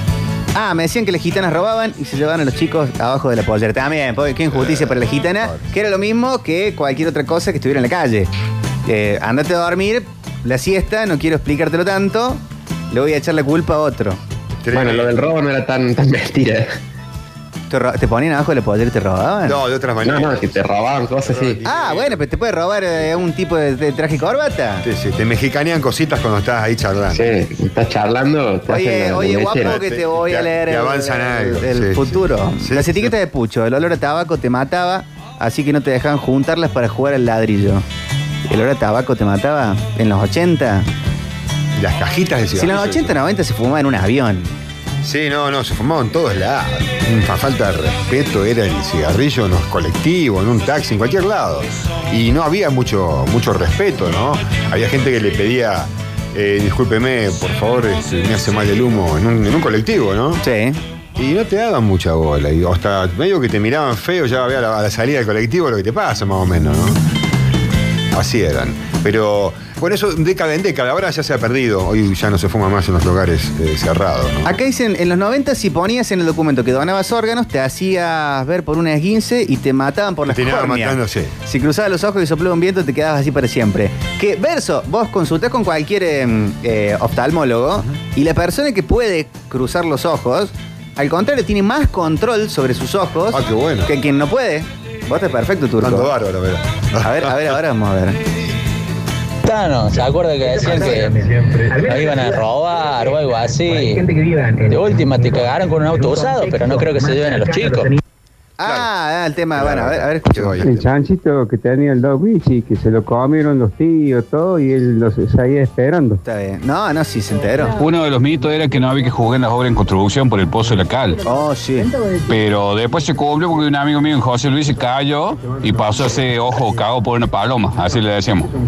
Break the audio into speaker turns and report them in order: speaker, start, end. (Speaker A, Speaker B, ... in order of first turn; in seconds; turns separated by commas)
Speaker A: 0.5-8.3, Speaker B: 4.5-5.6, Speaker A: 8.9-14.2, Speaker B: 14.6-15.2, Speaker C: 14.7-16.8, Speaker A: 17.7-19.6, Speaker B: 19.4-20.6, Speaker C: 20.0-21.6, Speaker B: 21.2-22.3, Speaker A: 21.6-24.9, Speaker B: 24.8-27.3, Speaker C: 27.1-29.8, Speaker A: 28.7-37.9, Speaker B: 29.6-33.1, Speaker A: 38.5-40.9, Speaker B: 41.8-43.2, Speaker A: 42.6-44.5, Speaker B: 45.0-60.4, Speaker A: 60.4-60.8, Speaker B: 61.2-67.0, Speaker B: 68.1-74.5, Speaker A: 74.5-96.1, Speaker B: 80.3-81.3, Speaker B: 93.3-93.9, Speaker B: 95.8-97.6, Speaker A: 97.0-98.2, Speaker D: 99.4-108.0, Speaker A: 108.6-110.7, Speaker B: 108.6-108.9, Speaker B: 109.5-110.9, Speaker E: 111.2-112.7, Speaker E: 113.2-116.2, Speaker A: 116.2-117.7, Speaker F: 117.8-121.2, Speaker A: 121.2-121.9, Speaker F: 122.2-128.5